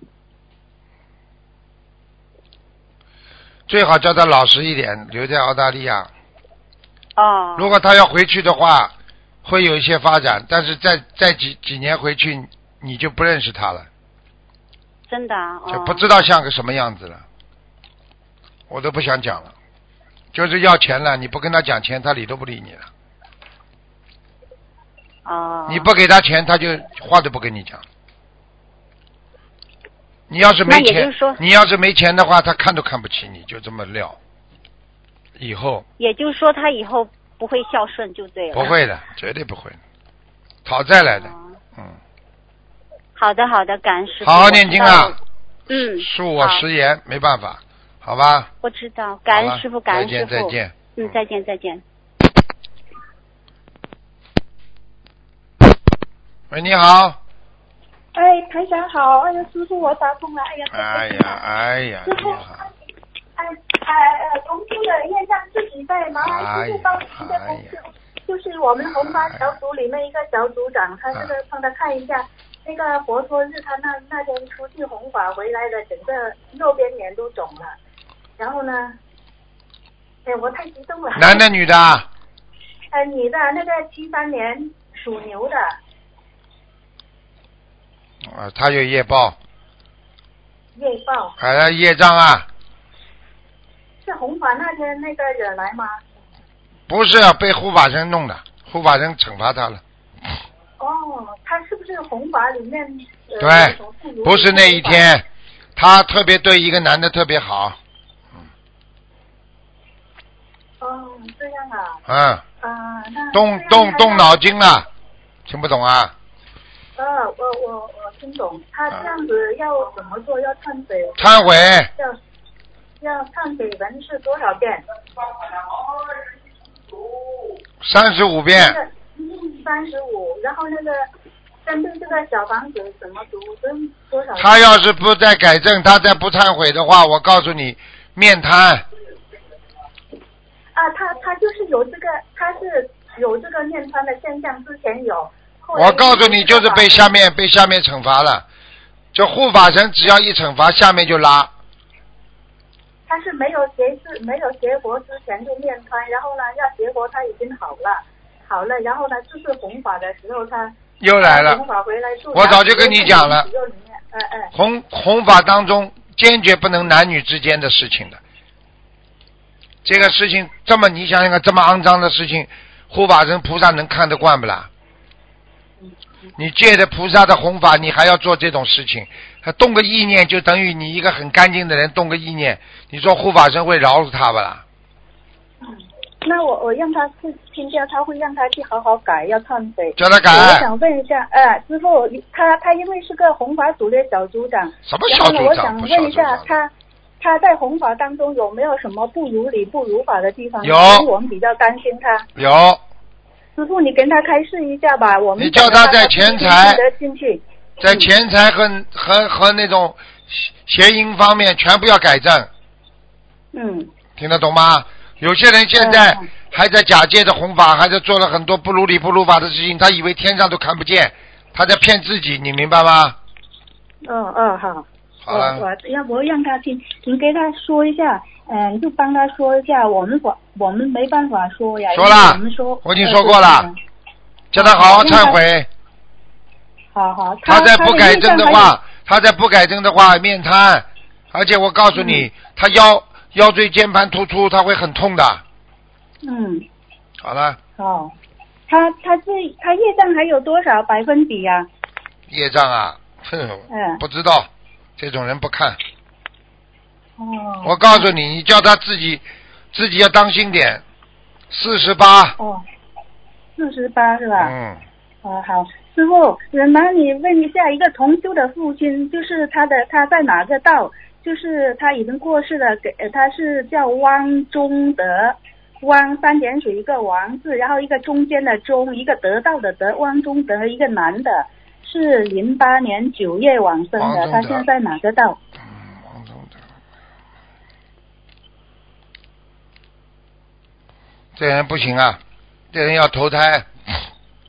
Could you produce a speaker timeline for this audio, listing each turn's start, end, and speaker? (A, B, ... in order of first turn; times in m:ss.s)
0:03.7-0:06.1 A
0:07.2-0:07.7 B
0:07.6-0:13.9 A
0:15.1-0:16.0 B
0:15.7-0:17.2 A
0:18.7-0:19.5 A
0:20.3-0:22.9 A
0:25.2-0:25.9 B
0:25.7-0:27.8 A
0:30.3-0:34.2 A
0:30.7-0:31.4 B
0:35.4-0:35.8 A
0:36.0-0:38.7 B
0:38.5-0:39.8 A
0:40.6-0:42.0 A
0:41.1-0:41.4 B
0:43.2-0:45.2 B
0:44.2-0:45.2 A
0:45.7-0:46.6 B
0:46.0-0:48.5 A
0:48.6-0:51.8 B
0:49.3-0:51.1 A
0:56.5-0:57.2 A
0:58.1-1:01.4 C
1:00.7-1:02.6 A
1:02.0-1:02.7 C
1:03.4-1:17.8 C
1:06.2-1:07.7 A
1:08.9-1:09.5 A
1:18.4-1:19.0 C
1:20.2-1:21.4 C
1:21.1-1:22.1 A
1:22.9-1:25.8 C
1:28.2-1:29.4 A
1:30.7-1:31.3 C
1:31.4-1:32.5 A
1:34.0-1:36.0 C
1:36.9-1:39.8 A
1:40.8-1:45.1 C
1:43.4-1:45.2 A
1:45.8-1:47.8 A
1:50.8-1:52.0 C
1:52.0-1:52.4 A
1:52.6-1:54.3 C
1:53.3-1:54.9 A
1:55.5-1:56.1 A
1:57.0-2:01.3 C
2:01.2-2:01.9 A
2:03.0-2:04.8 C
2:07.8-2:08.8 A
2:08.5-2:11.1 C
2:11.6-2:14.6 C
2:14.4-2:18.8 A
2:20.7-2:27.0 C
2:25.7-2:28.4 A
2:29.1-2:31.5 A
2:33.1-2:44.5 C
2:41.0-2:41.6 A
2:42.3-2:43.5 A
2:44.5-2:48.2 A
2:49.8-2:54.7 A
2:56.4-3:04.6 A
3:05.6-3:22.3 C
3:10.0-3:10.7 A
3:14.8-3:16.5 A
3:20.6-3:21.1 A
3:22.4-3:22.8 A
3:23.6-3:28.1 C
3:25.4-3:26.8 A
3:27.8-3:32.5 A
3:33.5-3:33.9 C
3:34.2-3:43.2 A
3:35.8-3:36.3 C
3:44.0-3:53.8 C
3:45.2-3:45.6 A
3:51.9-3:53.7 A
3:54.5-3:55.7 A
3:54.5-3:55.4 C
3:56.9-3:58.7 C
3:57.4-4:05.4 A
4:01.9-4:02.3 C
4:06.2-4:06.6 C
4:07.2-4:07.6 A
4:07.8-4:08.1 C
4:08.7-4:11.7 C
4:12.3-4:15.8 A
4:13.7-4:14.0 C
4:17.2-4:18.1 C
4:17.6-4:20.8 A
4:21.5-4:22.4 A
4:22.4-4:22.6 C
4:23.6-4:24.5 C
4:24.4-4:24.8 A
4:25.2-4:45.4 C
4:44.0-4:44.6 A
4:45.6-4:46.6 A
4:51.4-4:52.2 A
4:52.7-4:54.0 A